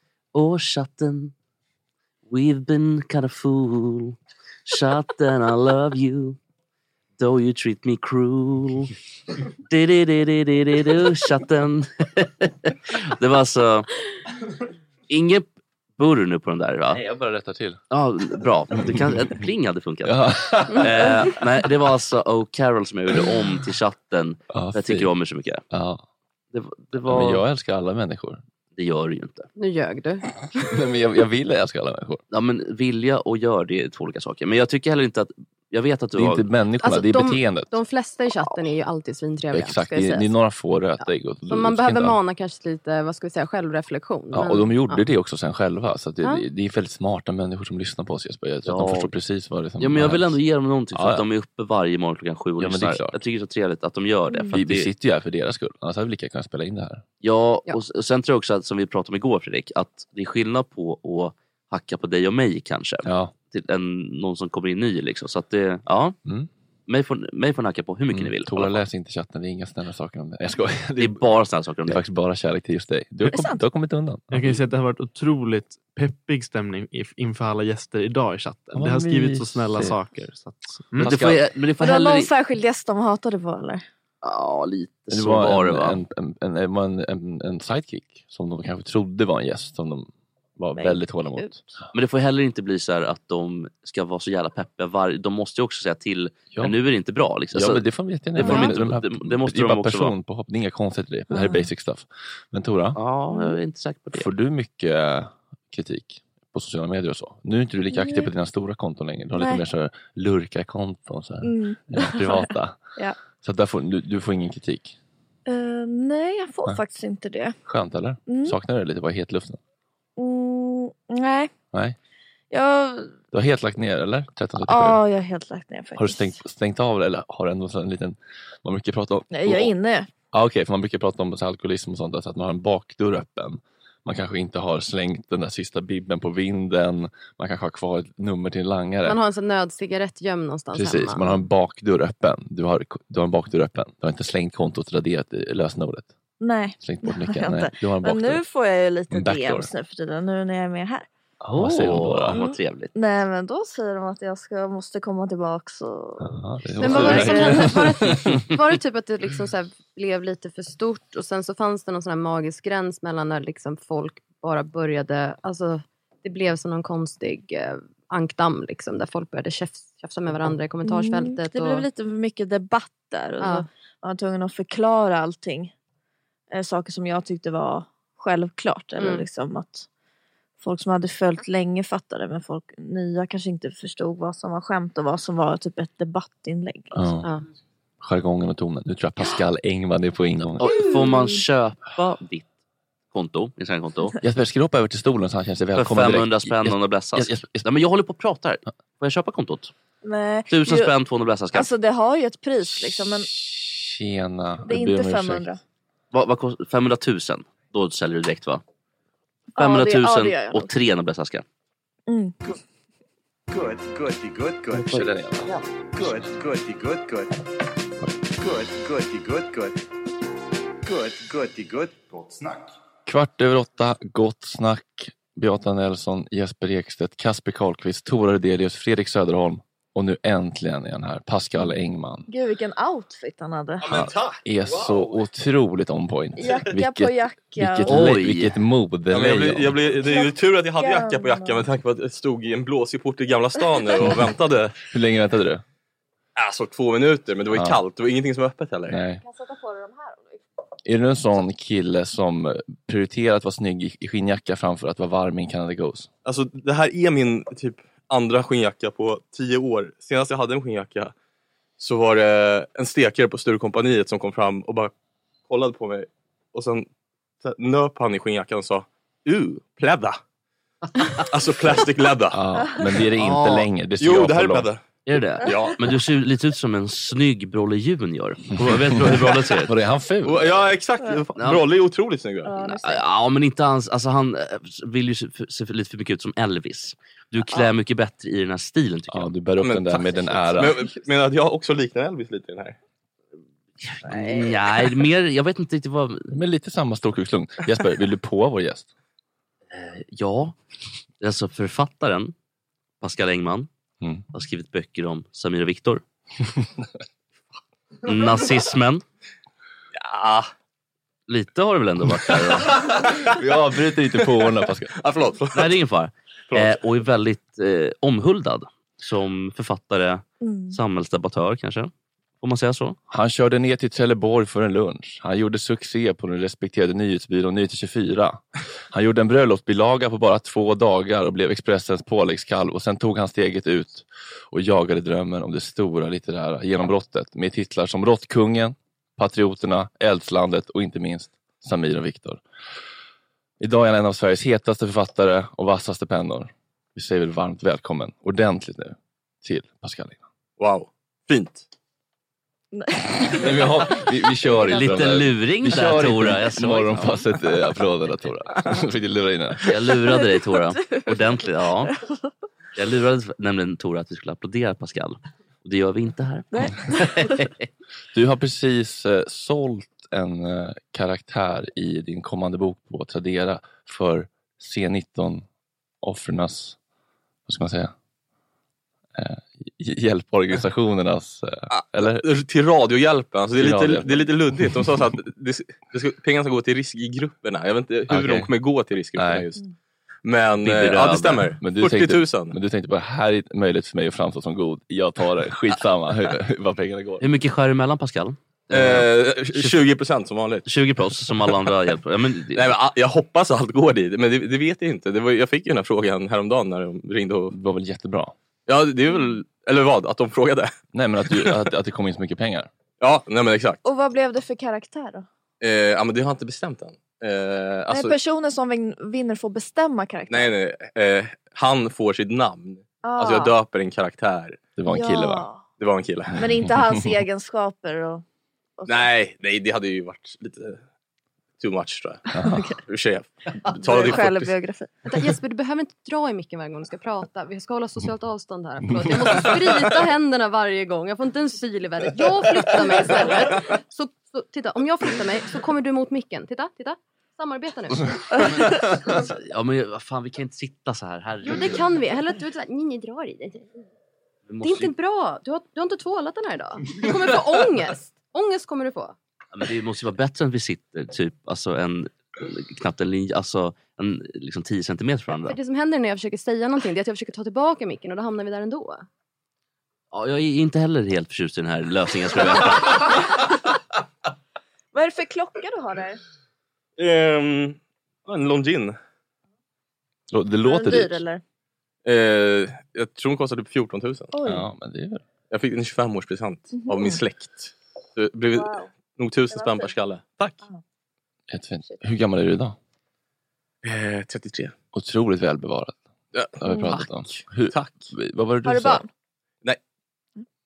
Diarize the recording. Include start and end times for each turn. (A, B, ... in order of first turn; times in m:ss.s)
0:00.3-0:01.3 A
0:02.3-0:06.4 A
0:07.2-0:08.9 A
0:09.7-0:13.9 A
0:15.1-0:17.0 A
0:16.9-0:17.8 B
0:17.9-0:25.6 A
0:18.7-0:19.0 B
0:20.0-0:21.4 B
0:24.5-0:25.1 B
0:25.7-0:26.0 B
0:26.5-0:27.4 A
0:27.0-0:28.4 B
0:28.8-0:29.5 A
0:29.6-0:30.4 C
0:30.6-0:32.2 B
0:32.3-0:36.4 A
0:36.2-0:37.7 B
0:36.8-0:40.3 C
0:39.5-0:42.2 B
0:41.5-0:45.0 C
0:44.3-0:50.4 B
0:48.6-0:49.1 A
0:49.8-0:54.9 A
0:50.9-0:51.3 B
0:52.6-0:53.2 B
0:54.5-0:57.0 B
0:57.2-1:06.2 A
1:03.0-1:03.4 B
1:06.9-1:08.8 A
1:08.1-1:11.2 B
1:11.0-1:12.0 A
1:11.9-1:14.6 B
1:13.2-1:13.6 D
1:14.3-1:21.1 E
1:18.7-1:20.0 B
1:21.0-1:21.4 B
1:21.0-1:22.3 A
1:21.8-1:23.8 D
1:24.2-1:26.0 A
1:25.1-1:31.6 B
1:30.8-1:31.5 D
1:31.9-1:37.8 A
1:36.5-1:36.8 B
1:37.5-1:43.0 B
1:38.4-1:40.2 A
1:38.4-1:38.7 D
1:41.3-1:41.7 D
1:43.0-1:44.3 A
1:43.3-1:43.6 D
1:44.1-1:52.8 B
1:47.9-1:48.3 D
1:49.4-1:49.6 D
1:51.4-1:53.2 D
1:53.4-1:55.0 B
1:55.5-1:57.6 D
1:57.7-1:59.6 B
1:58.3-1:58.6 D
2:00.2-2:01.5 D
2:02.5-2:03.2 D
2:03.3-2:05.0 B
2:04.6-2:06.4 D
2:06.0-2:09.7 B
2:09.3-2:10.1 D
2:10.3-2:19.2 B
2:19.0-2:21.4 C
2:20.7-2:26.1 B
2:26.4-2:31.1 D
2:26.8-2:28.4 B
2:29.1-2:29.7 B
2:31.4-2:32.5 B
2:31.5-2:32.9 A
2:32.3-2:37.8 D
2:36.2-2:38.4 B
2:36.8-2:51.9 C
2:50.9-2:55.7 D
2:53.4-2:53.7 C
2:56.5-2:59.9 D
2:59.0-2:59.2 C
3:00.6-3:06.9 D
3:06.9-3:07.3 B
3:08.0-3:10.7 B
3:10.6-3:12.5 A
3:10.6-3:11.5 D
3:13.1-3:14.2 A
3:14.2-3:17.7 B
3:15.8-3:19.7 A
3:20.0-3:21.0 D
3:20.5-3:21.7 A
3:21.5-3:23.3 D
3:22.8-3:25.5 B
3:24.7-3:25.6 D
3:26.1-3:28.6 A
3:29.6-3:30.7 D
3:29.6-3:31.4 A
3:32.1-3:32.4 D
3:33.5-3:37.3 F
3:34.7-3:36.3 B
3:38.4-3:39.8 F
3:40.9-3:42.7 F
3:43.1-3:52.3 B
3:52.3-3:53.8 D
3:53.9-3:55.1 F
3:53.9-3:59.7 B
3:56.4-3:58.2 D
3:57.9-3:58.6 A
3:59.1-4:04.8 G
4:00.0-4:01.6 D
4:04.8-4:05.6 B
4:06.4-4:09.0 G
4:07.5-4:07.8 B
4:08.9-4:09.2 B
4:09.2-4:10.4 D
4:10.9-4:16.1 B
4:16.2-4:21.1 G
4:21.8-4:24.9 G
4:25.5-4:26.9 G
4:27.4-4:30.2 G
4:31.3-4:32.4 G
4:32.3-4:34.7 B
4:33.2-4:33.7 A
4:34.0-4:34.8 G
4:35.0-4:39.7 A
4:35.5-4:35.7 G
4:38.7-4:39.1 B
4:39.6-4:40.7 B
4:40.2-4:42.6 G
4:42.5-4:43.0 D
4:42.6-4:49.3 A
4:49.1-4:50.8 B
4:49.6-4:52.8 G
4:53.8-4:56.3 A
4:54.0-4:54.7 D
4:56.3-4:58.9 B
4:59.7-5:00.6 A
5:01.2-5:02.3 A
5:03.0-5:03.7 A
5:04.3-5:06.0 A
5:08.0-5:09.0 A
5:10.0-5:10.5 G
5:11.3-5:12.8 A
5:13.0-5:13.4 G
5:13.3-5:14.9 B
5:14.9-5:15.7 G
5:15.6-5:23.0 A
5:16.5-5:16.8 G
5:20.4-5:20.8 D
5:23.1-5:42.4 B
5:43.6-5:50.2 B
5:50.6-5:51.6 G
5:52.7-5:54.0 D
5:53.3-5:59.7 B
5:54.5-5:54.9 D
5:54.7-5:57.2 A
5:59.7-6:02.0 A
6:00.0-6:02.3 D
6:02.8-6:07.5 A
6:06.5-6:07.4 D
6:08.1-6:15.4 B
6:16.0-6:16.8 B
6:17.5-6:17.9 B
6:19.2-6:22.3 B
6:21.7-6:29.6 G
6:23.6-6:24.7 B
6:28.1-6:28.5 B
6:29.2-6:29.5 B
6:30.2-6:32.6 G
6:30.6-6:31.5 A
6:31.6-6:37.2 B
6:37.2-6:39.8 A
6:38.7-6:40.6 G
6:40.7-6:42.8 A
6:42.6-6:47.6 G
6:47.5-6:48.3 B
6:48.7-6:50.7 G
6:50.9-6:52.7 B
6:51.3-6:51.6 G
6:53.0-6:53.8 G
6:53.8-6:55.3 D
6:55.6-6:58.1 G
6:57.9-7:00.5 D
7:00.3-7:04.6 G
7:03.0-7:03.5 D
7:04.8-7:05.5 B
7:04.9-7:05.6 D
7:05.8-7:06.4 G
7:06.4-7:08.2 D
7:08.8-7:09.1 D
7:08.9-7:10.8 G
7:11.6-7:12.2 G
7:12.3-7:12.7 B
7:12.4-7:12.8 D
7:12.9-7:14.5 G
7:13.7-7:14.9 D
7:15.0-7:28.5 C
7:29.2-7:32.0 A
7:31.4-7:33.8 C
7:34.5-7:34.9 A
7:34.6-7:39.2 C
7:39.5-7:45.6 A
7:45.4-7:49.1 C
7:50.1-7:53.2 A
7:54.9-7:56.2 D
7:57.0-7:59.0 G
8:00.3-8:01.2 B
8:00.6-8:01.4 D
8:02.0-8:04.3 G
8:04.3-8:04.7 D
8:04.4-8:05.2 B
8:05.5-8:10.6 G
8:06.7-8:07.2 D
8:08.5-8:08.9 D
8:09.5-8:09.9 D
8:11.5-8:12.8 B
8:13.8-8:14.7 G
8:14.9-8:16.0 B
8:16.3-8:18.1 G
8:16.6-8:19.0 B
8:18.6-8:19.1 D